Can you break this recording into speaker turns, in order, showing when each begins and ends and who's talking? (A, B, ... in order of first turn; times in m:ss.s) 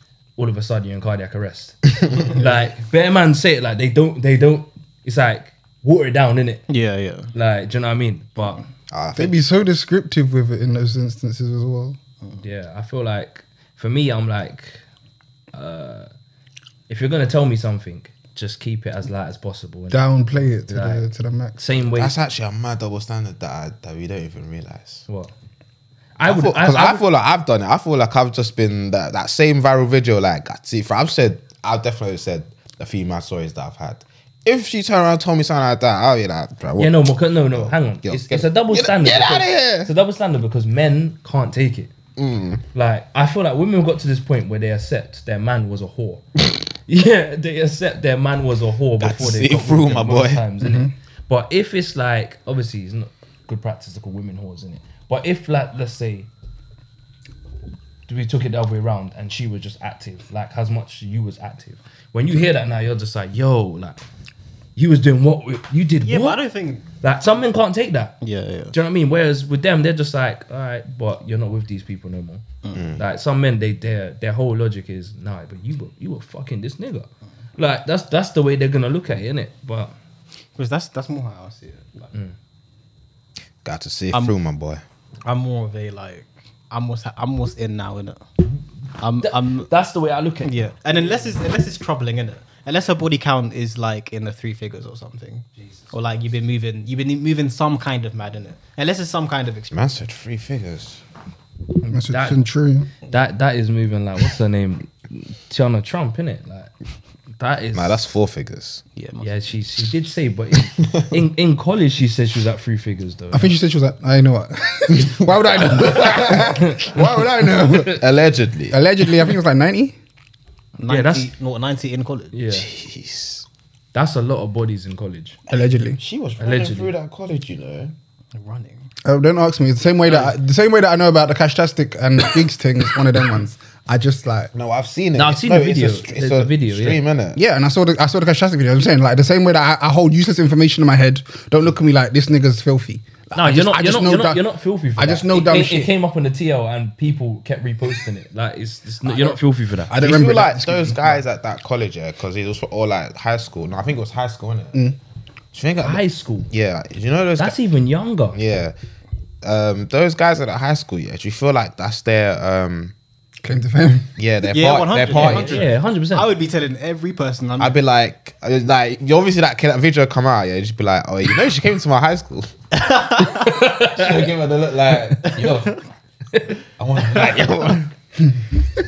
0:00.4-0:06.6 A
0:06.7-0:07.3 B
0:07.3-0:08.6 A
0:08.9-0:09.4 C
0:09.1-0:12.0 D
0:12.4-0:14.8 A
0:15.5-0:16.1 A
0:16.9-0:21.0 A
0:19.9-0:21.6 D
0:21.6-0:22.1 A
0:22.0-0:25.0 C
0:25.1-0:25.3 A
0:26.2-0:27.0 A
0:26.2-0:39.9 C
0:36.8-0:41.9 A
0:42.2-0:42.6 C
0:42.7-0:46.2 A
0:46.9-0:56.3 A
0:49.0-0:50.4 C
0:50.6-0:50.9 D
0:58.1-1:04.0 A
1:04.8-1:06.4 A
1:06.0-1:06.9 B
1:07.0-1:08.1 A
1:08.2-1:08.7 B
1:08.7-1:12.4 A
1:12.6-1:12.9 B
1:12.7-1:13.0 C
1:13.0-1:19.9 A
1:20.6-1:22.1 B
1:23.6-1:24.8 C
1:25.2-1:28.2 B
1:29.0-1:29.7 B
1:29.2-1:30.5 A
1:30.4-1:39.8 B
1:35.6-1:35.9 A
1:39.7-1:41.0 C
1:41.8-1:42.4 A
1:41.9-1:42.9 D
1:43.0-1:46.7 A
1:47.4-1:48.1 A
1:47.7-1:48.8 C
1:49.0-1:49.3 B
1:49.2-1:53.5 A
1:50.8-1:51.0 C
1:53.3-1:58.0 D
1:54.9-1:56.4 C
1:55.9-1:56.9 A
1:57.7-1:58.8 C
1:58.7-2:00.0 D
2:00.8-2:02.3 B
2:00.9-2:01.3 A
2:02.3-2:02.7 A
2:02.5-2:03.4 C
2:03.9-2:05.4 A
2:05.5-2:06.0 D
2:06.0-2:07.9 C
2:06.4-2:06.9 A
2:08.3-2:08.9 B
2:09.0-2:14.5 D
2:14.5-2:17.4 C
2:15.1-2:17.0 A
2:17.3-2:24.4 D
2:23.3-2:30.0 A
2:25.0-2:25.9 D
2:29.0-2:29.4 D
2:29.9-2:31.2 D
2:29.9-2:34.8 C
2:35.5-2:37.6 C
2:35.8-2:36.5 A
2:37.4-2:38.4 A
2:38.3-2:38.7 C
2:39.4-2:42.9 C
2:43.4-2:44.1 D
2:44.2-2:45.6 C
2:44.5-2:47.8 B
2:45.1-2:46.3 A
2:47.6-2:52.5 C
2:52.7-2:53.5 B
2:53.2-2:54.3 A
2:53.8-2:55.8 C
2:55.2-2:55.8 B
2:56.3-2:56.6 A
2:56.8-2:57.9 C
2:57.1-2:57.5 B
2:57.2-2:57.5 A